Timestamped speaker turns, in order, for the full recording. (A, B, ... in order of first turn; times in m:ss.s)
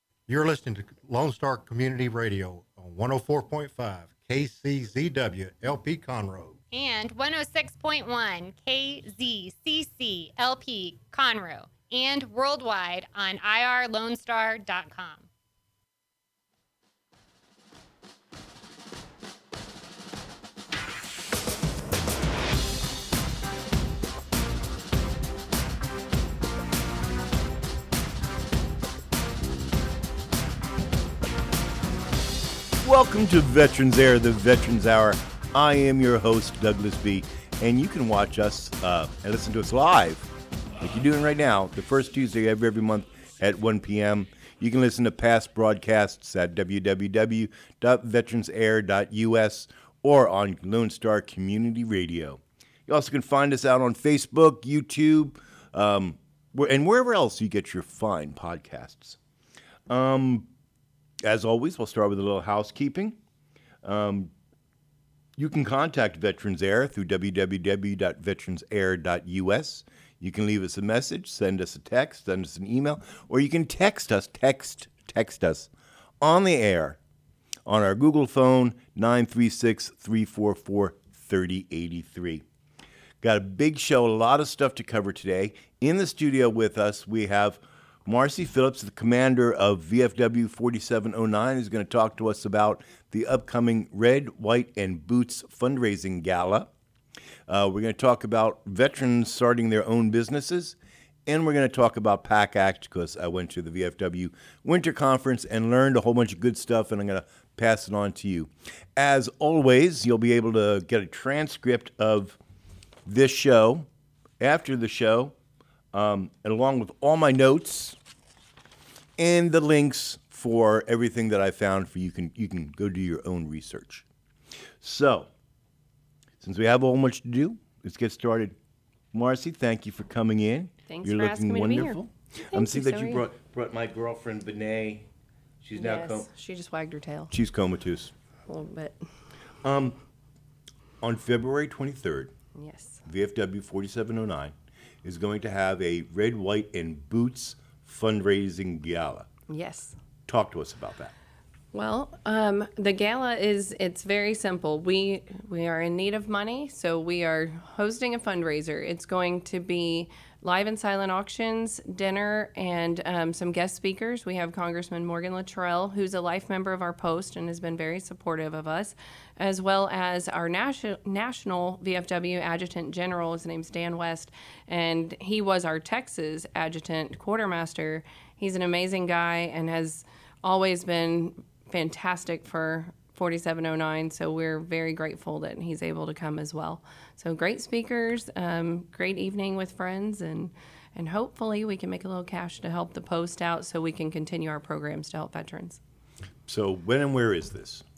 0:00.3-0:06.6 A
0:06.7-0:15.3 B
0:32.8-0:59.2 C
0:59.9-1:00.5 C
1:01.2-1:03.2 C
1:03.8-1:04.3 C
1:05.4-1:15.7 C
1:16.2-1:17.0 C
1:17.7-1:22.4 C
1:23.2-1:36.7 C
1:37.5-1:52.4 C
1:53.1-1:53.9 C
1:54.4-1:55.3 C
1:55.9-1:58.0 C
1:59.2-2:04.0 C
2:04.8-2:05.3 C
2:06.4-2:08.6 C
2:09.1-2:15.1 C
2:10.9-2:13.2 D
2:15.6-2:16.3 C
2:15.8-2:17.3 D
2:17.3-2:18.1 C
2:18.5-2:19.0 D
2:19.6-2:20.0 C
2:21.0-2:22.3 C
2:22.6-2:23.0 D
2:23.0-2:29.3 C
2:29.5-2:30.0 D
2:30.3-2:31.1 C
2:31.7-3:15.8 D
3:16.5-3:17.8 C